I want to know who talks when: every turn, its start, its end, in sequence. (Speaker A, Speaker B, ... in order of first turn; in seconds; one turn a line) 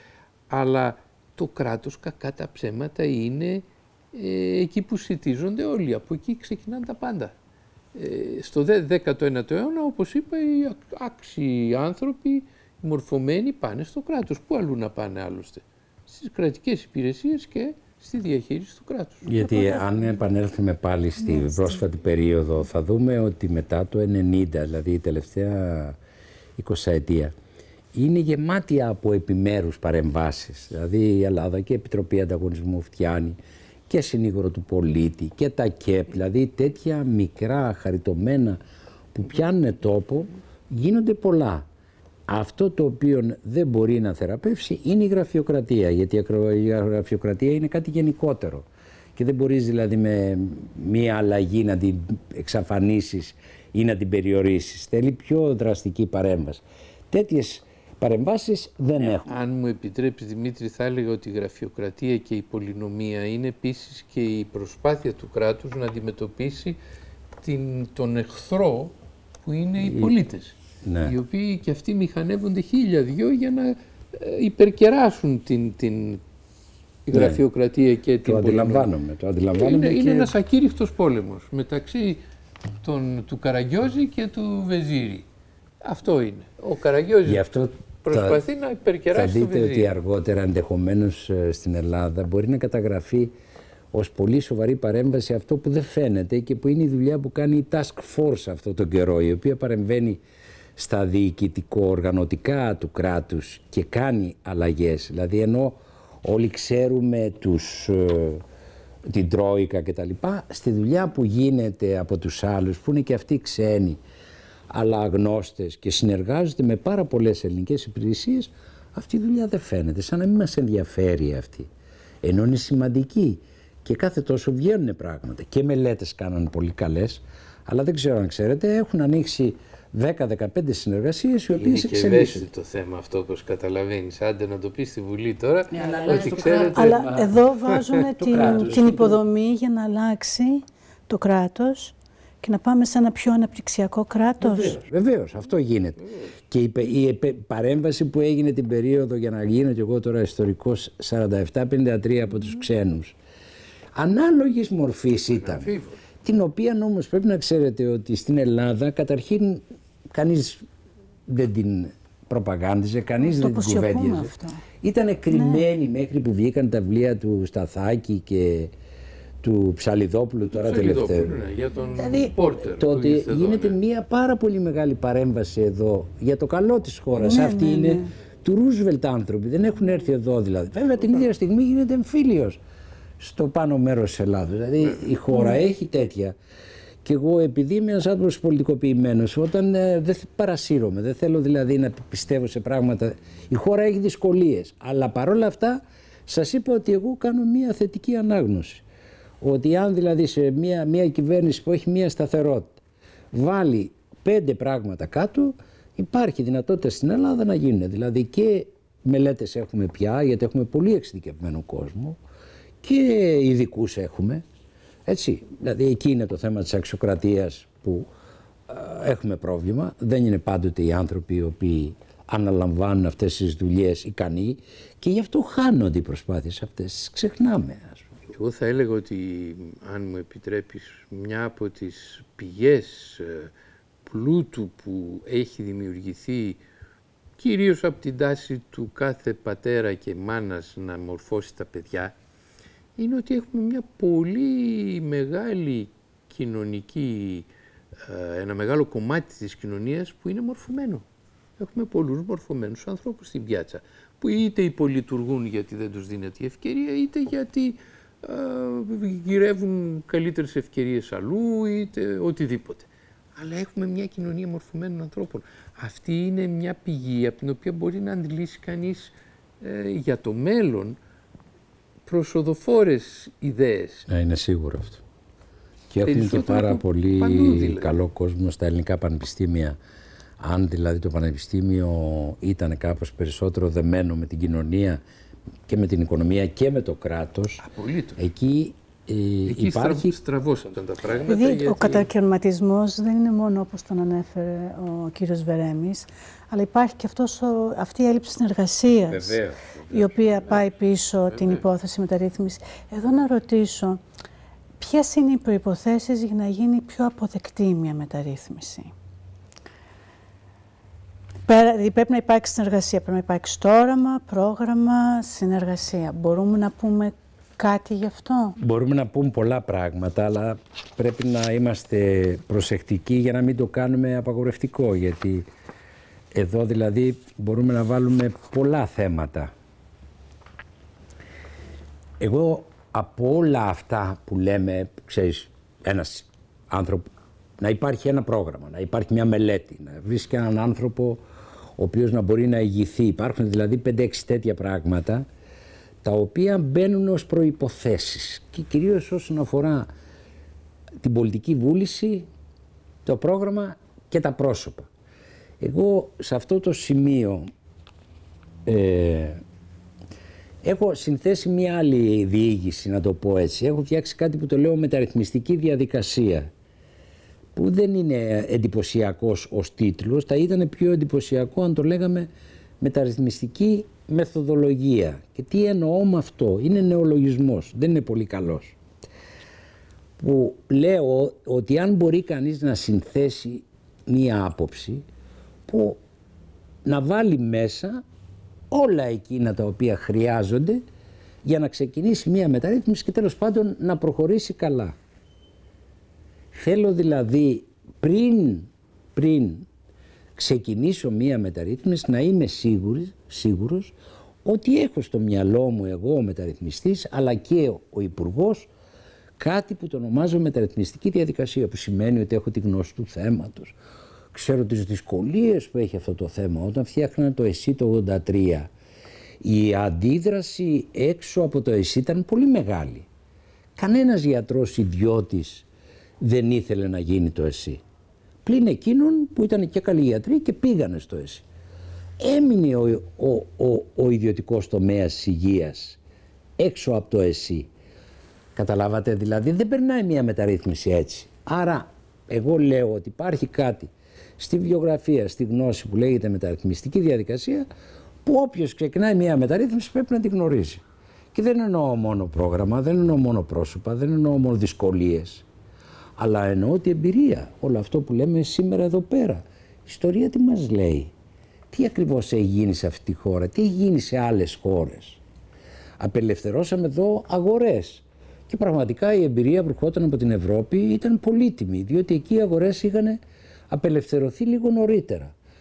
Speaker A: 0.5-7.3
Speaker A: 7.9-19.3
Speaker B: 19.2-26.0
Speaker C: 19.6-19.9
Speaker B: 26.6-27.3
Speaker B: 27.9-33.4
Speaker B: 33.9-38.6
Speaker B: 39.1-41.6
Speaker B: 42.3-59.3
Speaker A: 59.0-66.8
Speaker A: 67.4-68.9
Speaker A: 69.5-76.2
Speaker B: 69.8-70.1
Speaker B: 70.8-71.2
Speaker A: 77.1-78.9
Speaker B: 77.1-77.4
Speaker B: 78.2-80.3
Speaker A: 79.5-82.2
Speaker A: 82.8-85.2
Speaker A: 85.8-87.5
Speaker B: 87.2-88.4
Speaker A: 88.0-90.0
Speaker B: 89.1-93.3
Speaker B: 93.9-100.2
Speaker B: 100.8-108.4
Speaker B: 109.1-114.0
Speaker B: 114.7-121.7
Speaker B: 122.2-132.5
Speaker A: 131.6-137.1
Speaker B: 135.7-139.2
Speaker C: 136.7-144.8
Speaker B: 144.4-153.2
Speaker B: 154.0-160.7
Speaker A: 155.4-155.9
Speaker B: 161.3-168.7
Speaker C: 163.2-164.6
Speaker C: 165.3-165.6
Speaker B: 169.4-171.4
Speaker A: 170.5-173.8
Speaker B: 172.0-182.6
Speaker C: 177.2-178.1
Speaker B: 183.2-186.3
Speaker B: 187.0-198.8
Speaker B: 199.4-202.8
Speaker B: 203.3-212.2
Speaker B: 212.8-214.4
Speaker B: 215.1-218.1
Speaker B: 218.7-228.1
Speaker A: 228.3-233.5
Speaker A: 234.1-236.6
Speaker A: 237.4-242.1
Speaker A: 243.0-251.1
Speaker A: 251.6-271.0
Speaker A: 272.1-274.1
Speaker B: 274.1-275.0
Speaker B: 275.9-279.8
Speaker A: 276.1-278.0
Speaker B: 280.4-285.0
Speaker B: 285.7-287.6
Speaker A: 287.6-288.2
Speaker B: 288.2-290.2
Speaker A: 289.5-292.1
Speaker C: 291.2-304.0
Speaker B: 299.1-300.4
Speaker C: 304.8-308.9
Speaker C: 311.5-318.6
Speaker B: 318.6-325.5
Speaker B: 326.3-329.5
Speaker B: 332.2-337.1
Speaker B: 337.6-341.2
Speaker B: 341.8-345.3
Speaker B: 346.0-349.9
Speaker B: 351.0-352.3
Speaker B: 353.1-354.9
Speaker B: 355.6-357.5
Speaker B: 358.7-359.4
Speaker B: 360.6-366.5
Speaker B: 367.6-372.3
Speaker B: 372.8-378.8
Speaker B: 380.2-385.0
Speaker B: 385.7-386.0
Speaker B: 386.9-388.0
Speaker B: 388.7-390.8
Speaker B: 391.4-394.9
Speaker B: 396.5-399.7
Speaker B: 400.4-403.9
Speaker B: 404.4-408.7
Speaker B: 409.4-413.8
Speaker B: 414.3-418.7
Speaker B: 419.4-423.1
Speaker B: 423.8-425.7
Speaker B: 426.2-427.8
Speaker B: 428.4-431.5
Speaker B: 432.2-436.0
Speaker B: 436.6-437.7
Speaker B: 438.6-447.7
Speaker B: 448.2-450.8
Speaker B: 451.3-455.5
Speaker B: 456.2-461.1
Speaker B: 461.7-465.2
Speaker B: 466.0-475.3